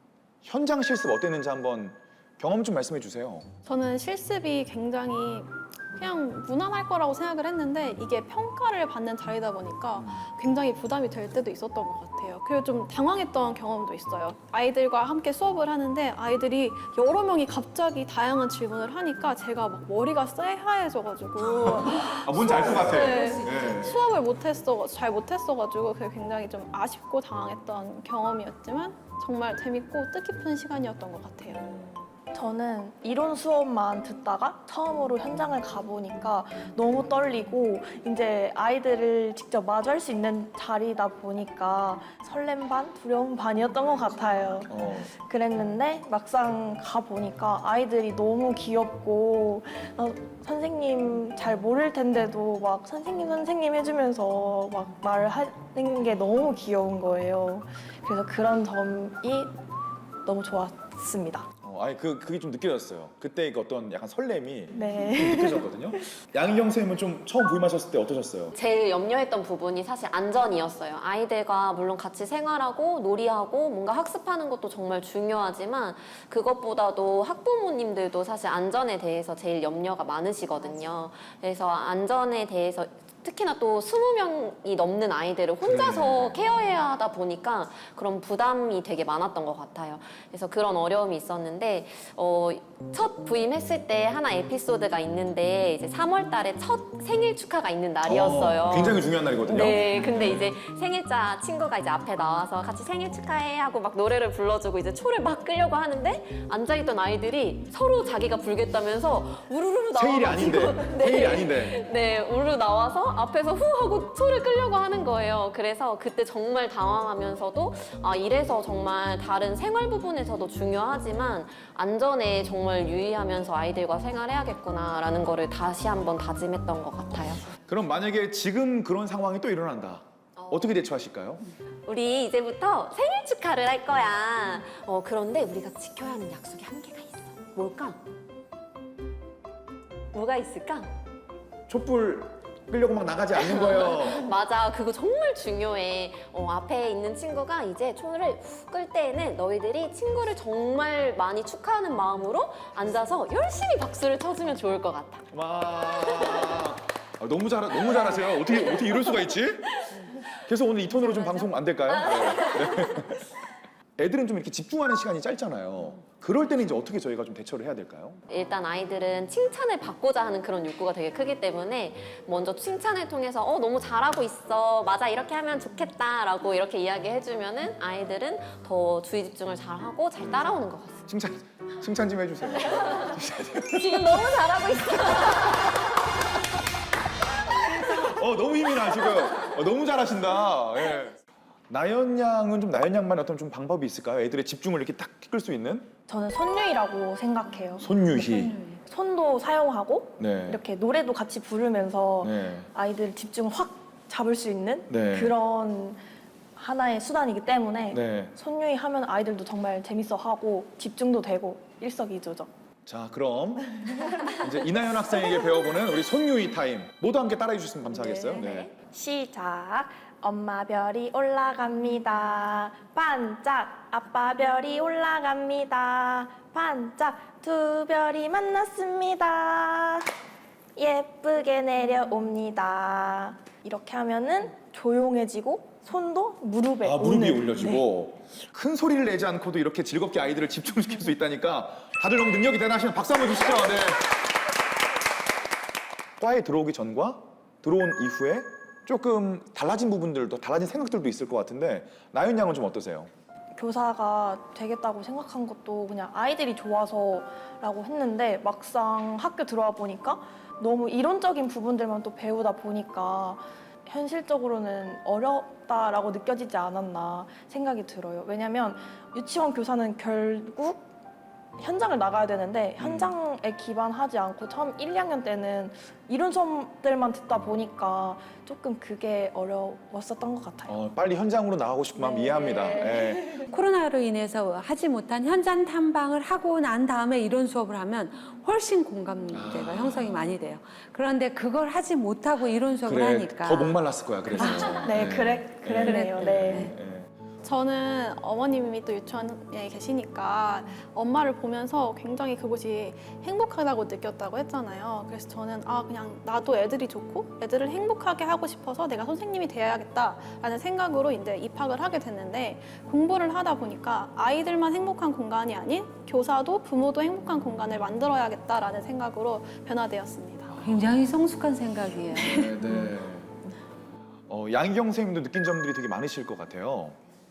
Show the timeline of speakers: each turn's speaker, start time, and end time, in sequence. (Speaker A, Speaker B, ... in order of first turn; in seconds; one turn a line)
Speaker A: 0.4-3.5
Speaker B: 3.6-31.6
Speaker A: 10.0-10.3
Speaker A: 21.5-24.0
Speaker A: 31.5-32.1
Speaker C: 32.3-59.5
Speaker A: 44.7-45.1
Speaker C: 60.2-61.5
Speaker A: 61.6-68.5
Speaker C: 64.7-66.0
Speaker D: 68.5-127.5
Speaker A: 85.6-86.7
Speaker A: 98.0-100.5
Speaker A: 109.9-111.9
Speaker A: 127.7-131.4
Speaker D: 130.4-130.7
Speaker D: 131.9-138.0
Speaker D: 140.1-140.9
Speaker A: 141.7-144.3
Speaker D: 143.4-155.2
Speaker A: 155.3-159.8
Speaker A: 160.3-163.3
Speaker D: 161.0-161.5
Speaker D: 162.0-163.0
Speaker A: 164.0-168.2
Speaker D: 168.3-181.0
Speaker A: 180.2-180.5
Speaker A: 181.1-184.3
Speaker D: 183.7-185.8
Speaker D: 187.7-188.0
Speaker A: 187.8-191.2
Speaker A: 191.7-195.9
Speaker C: 196.1-197.9
Speaker A: 197.8-198.5
Speaker E: 198.2-198.8
Speaker C: 198.9-206.0
Speaker A: 200.2-200.6
Speaker A: 202.2-202.7
Speaker A: 204.9-205.3
Speaker C: 206.6-212.5
Speaker A: 207.9-208.3
Speaker A: 212.8-213.8
Speaker C: 214.0-214.3
Speaker A: 214.3-218.7
Speaker D: 218.0-218.7
Speaker C: 218.8-230.1
Speaker C: 230.8-237.8
Speaker A: 236.8-244.1
Speaker A: 246.2-253.1
Speaker C: 253.5-270.8
Speaker C: 271.6-280.8
Speaker A: 272.8-273.1
Speaker A: 280.7-283.4
Speaker C: 282.1-283.4
Speaker E: 283.5-293.8
Speaker A: 289.3-290.3
Speaker A: 292.9-297.1
Speaker C: 294.4-296.8
Speaker E: 295.8-296.7
Speaker B: 297.4-320.6
Speaker A: 320.5-320.9
Speaker E: 320.6-322.9
Speaker A: 322.1-323.4
Speaker A: 324.3-327.0